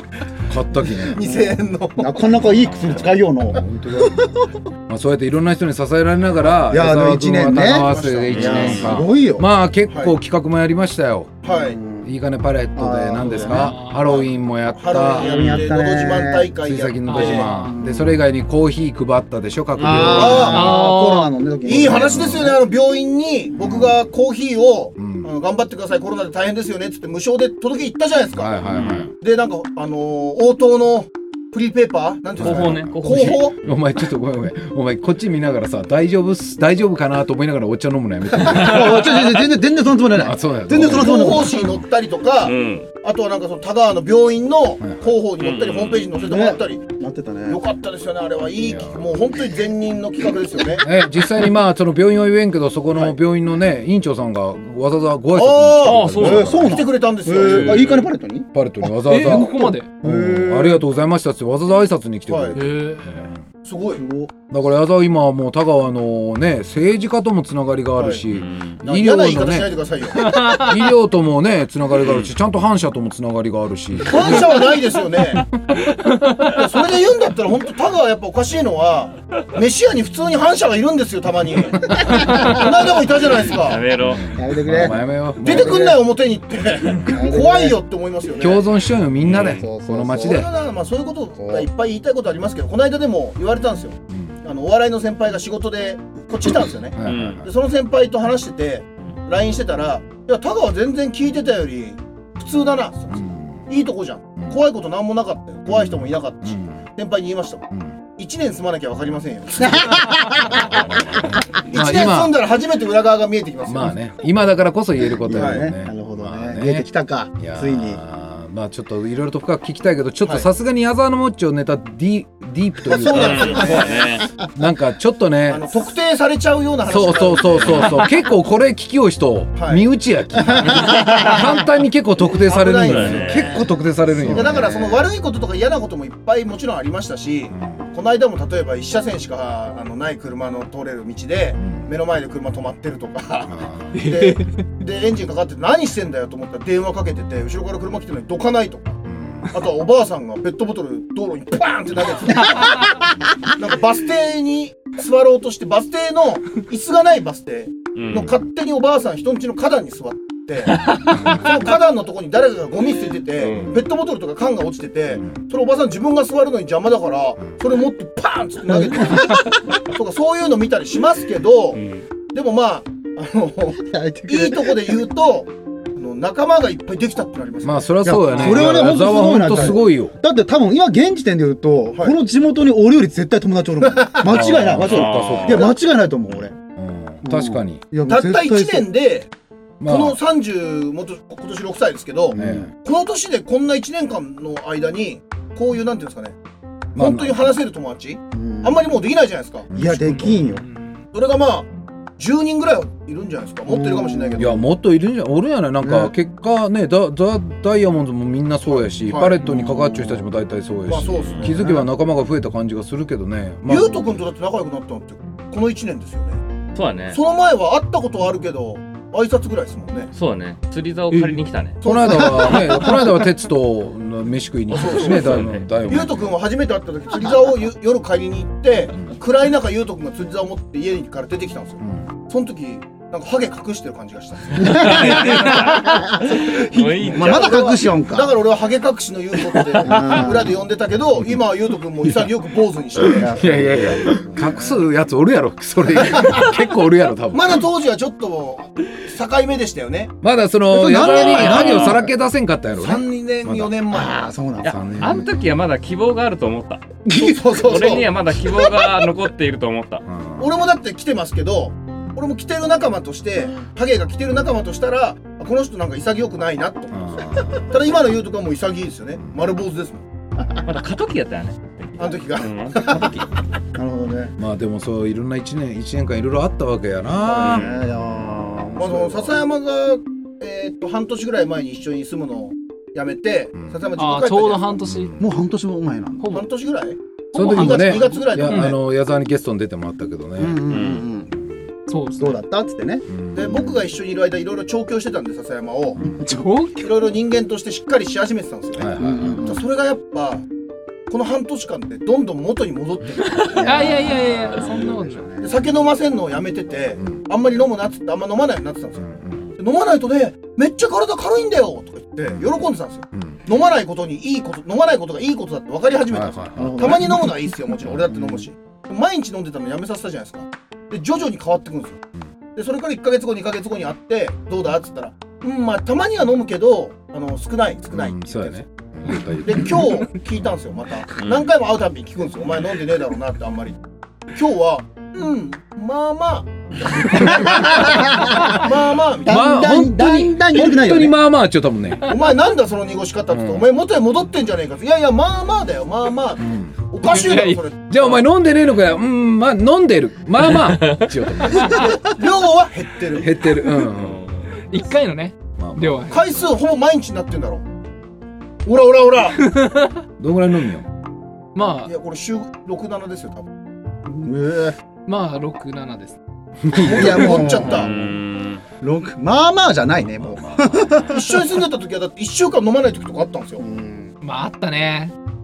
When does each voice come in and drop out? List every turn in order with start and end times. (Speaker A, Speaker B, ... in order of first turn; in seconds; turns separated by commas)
Speaker A: 0.5-1.2, Speaker B: 0.9-2.3, Speaker C: 1.2-4.5, Speaker A: 2.5-2.8, Speaker A: 3.5-4.3, Speaker A: 4.9-11.4, Speaker C: 6.7-9.4, Speaker B: 7.6-9.0, Speaker D: 8.3-9.0, Speaker B: 9.9-10.1, Speaker B: 11.4-11.8, Speaker C: 11.5-12.1, Speaker A: 12.0-15.5, Speaker C: 12.8-13.7, Speaker E: 13.3-14.1, Speaker B: 14.0-17.5, Speaker D: 15.1-15.7, Speaker C: 15.2-16.5, Speaker A: 16.6-20.7, Speaker E: 17.0-17.7, Speaker C: 17.6-18.2, Speaker D: 19.8-20.2, Speaker C: 19.8-22.6, Speaker B: 20.1-20.8, Speaker E: 20.3-21.4, Speaker B: 21.6-33.6, Speaker A: 21.9-22.5, Speaker A: 23.5-24.0, Speaker A: 25.0-25.3, Speaker A: 28.3-29.1, Speaker D: 28.7-29.1, Speaker A: 32.4-39.4, Speaker D: 32.4-33.5, Speaker C: 38.3-41.5, Speaker A: 40.1-41.8, Speaker B: 40.7-46.9, Speaker D: 42.4-42.9, Speaker A: 44.8-45.1, Speaker D: 45.4-46.2, Speaker C: 46.2-47.6, Speaker B: 47.5-50.9, Speaker A: 48.5-49.2, Speaker A: 50.8-56.8, Speaker B: 55.3-58.1, Speaker D: 55.8-56.6, Speaker C: 56.2-58.5, Speaker D: 57.4-57.9, Speaker A: 58.5-63.4, Speaker E: 59.0-59.9, Speaker C: 59.1-60.8, Speaker B: 62.3-62.6, Speaker E: 62.6-63.1, Speaker B: 63.6-64.0, Speaker C: 64.0-64.3, Speaker A: 64.5-74.6, Speaker B: 68.0-68.2, Speaker D: 68.3-68.8, Speaker B: 68.8-70.6, Speaker E: 70.2-70.7, Speaker D: 72.0-72.3, Speaker B: 74.0-75.5, Speaker E: 75.9-76.5, Speaker B: 76.4-83.9, Speaker C: 82.0-82.6, Speaker D: 83.2-84.3, Speaker A: 84.0-85.9, Speaker C: 84.3-86.0, Speaker B: 85.4-88.7, Speaker C: 86.9-87.8, Speaker A: 88.4-90.5, Speaker D: 89.2-89.6, Speaker C: 89.3-90.4, Speaker B: 90.2-111.0, Speaker C: 91.4-91.7, Speaker A: 96.9-97.5, Speaker D: 97.0-97.4, Speaker A: 103.1-103.7, Speaker A: 105.7-106.8, Speaker A: 107.7-108.0, Speaker C: 109.6-110.7, Speaker A: 110.5-112.4, Speaker B: 111.7-114.0, Speaker A: 113.6-123.9, Speaker C: 115.2-118.0, Speaker B: 115.3-115.7, Speaker B: 122.9-124.3, Speaker D: 123.1-124.3, Speaker A: 124.5-125.7, Speaker B: 125.5-128.1, Speaker A: 126.8-135.1, Speaker B: 129.6-129.8, Speaker C: 130.4-131.4, Speaker D: 130.7-131.1, Speaker B: 132.2-149.0, Speaker D: 132.8-133.6, Speaker C: 134.1-134.6, Speaker A: 137.5-137.9, Speaker A: 141.6-141.9, Speaker A: 143.4-144.0, Speaker E: 143.9-144.6, Speaker A: 149.1-149.5, Speaker B: 149.5-177.9, Speaker E: 152.6-152.8, Speaker D: 157.9-158.3, Speaker A: 161.2-161.4, Speaker D: 163.4-163.8, Speaker C: 168.7-169.6, Speaker D: 171.7-172.1, Speaker C: 173.8-174.9, Speaker A: 177.6-180.1, Speaker C: 178.0-186.6, Speaker E: 178.4-178.6, Speaker B: 183.9-184.5, Speaker A: 184.2-185.8, Speaker D: 184.8-185.7, Speaker B: 185.5-185.7, Speaker A: 186.5-187.8, Speaker C: 187.2-188.9, Speaker B: 188.1-189.3, Speaker A: 189.8-190.2, Speaker B: 189.8-196.3, Speaker C: 192.3-192.7, Speaker A: 192.3-192.7, Speaker A: 196.9-197.5, Speaker B: 196.9-199.7, Speaker C: 198.3-198.8, Speaker A: 199.7-200.4, Speaker C: 199.7-200.6, Speaker E: 200.2-201.0, Speaker B: 201.1-204.6, Speaker C: 203.7-204.6, Speaker A: 204.4-214.1, Speaker C: 205.8-206.1, Speaker B: 208.7-209.4, Speaker C: 209.4-210.2, Speaker B: 210.8-211.7, Speaker C: 211.4-211.8, Speaker B: 213.7-216.4, Speaker D: 216.7-217.2, Speaker B: 217.1-220.1, Speaker D: 220.1-221.8, Speaker A: 221.1-226.4, Speaker B: 221.8-223.1, Speaker B: 224.7-243.4, Speaker D: 225.1-225.7, Speaker C: 234.6-236.4, Speaker D: 234.8-237.8, Speaker C: 237.0-238.3, Speaker C: 239.8-240.5, Speaker A: 243.0-247.7, Speaker C: 243.1-244.8, Speaker B: 245.9-246.5, Speaker B: 247.3-250.1, Speaker A: 250.2-253.7, Speaker C: 250.7-252.1, Speaker B: 251.0-252.0, Speaker D: 251.0-252.0, Speaker B: 252.7-254.3, Speaker C: 253.9-255.0, Speaker A: 254.6-255.4, Speaker D: 254.6-256.8, Speaker B: 257.1-259.0, Speaker C: 257.1-257.9, Speaker D: 257.6-260.0, Speaker A: 260.1-260.5, Speaker B: 260.4-270.0, Speaker A: 266.9-267.7, Speaker D: 270.6-273.3, Speaker B: 272.0-273.2, Speaker C: 273.7-274.3, Speaker A: 274.4-277.7, Speaker B: 277.3-277.7, Speaker C: 277.3-279.4, Speaker D: 277.4-277.7, Speaker A: 278.3-278.7, Speaker B: 278.8-284.8, Speaker E: 283.9-285.1, Speaker A: 284.8-285.3, Speaker C: 285.2-286.3, Speaker E: 286.2-286.5, Speaker B: 286.3-288.8, Speaker A: 287.3-290.9, Speaker E: 287.4-288.7, Speaker C: 290.4-291.3, Speaker D: 290.7-291.0, Speaker E: 291.9-292.4, Speaker C: 292.2-293.1, Speaker A: 293.1-293.8, Speaker B: 293.3-296.1, Speaker A: 296.0-296.2, Speaker E: 296.2-297.0, Speaker B: 296.8-300.4, Speaker A: 298.8-299.5, Speaker C: 299.0-299.6, Speaker B: 301.1-303.8, Speaker C: 303.4-305.7, Speaker E: 303.5-305.3, Speaker B: 305.4-322.0, Speaker A: 309.0-309.5, Speaker A: 312.3-313.4, Speaker A: 316.1-317.2, Speaker C: 316.6-317.4, Speaker A: 317.8-318.2, Speaker C: 318.1-318.4, Speaker B: 322.5-333.8, Speaker A: 327.9-330.0, Speaker D: 331.2-331.4, Speaker B: 334.3-339.5, Speaker C: 337.2-338.6, Speaker C: 339.2-341.2, Speaker A: 339.2-342.1, Speaker B: 342.1-348.2, Speaker A: 343.3-343.7, Speaker A: 346.4-346.7, Speaker E: 347.0-347.6, Speaker A: 347.9-352.0, Speaker D: 350.6-351.1, Speaker B: 351.5-353.4, Speaker A: 353.1-354.2, Speaker D: 353.9-354.5, Speaker E: 354.5-356.3, Speaker A: 355.6-356.1, Speaker B: 356.1-357.6, Speaker B: 358.6-359.5, Speaker E: 359.4-360.0, Speaker A: 360.2-360.9, Speaker E: 361.5-361.9, Speaker B: 361.9-363.5, Speaker C: 364.1-364.8, Speaker E: 365.1-366.2, Speaker A: 366.7-367.5, Speaker B: 366.7-368.0, Speaker C: 366.8-367.9, Speaker D: 367.6-368.6, Speaker C: 368.8-371.4, Speaker A: 370.1-371.0, Speaker B: 371.1-373.6, Speaker C: 373.6-374.1, Speaker E: 374.2-375.1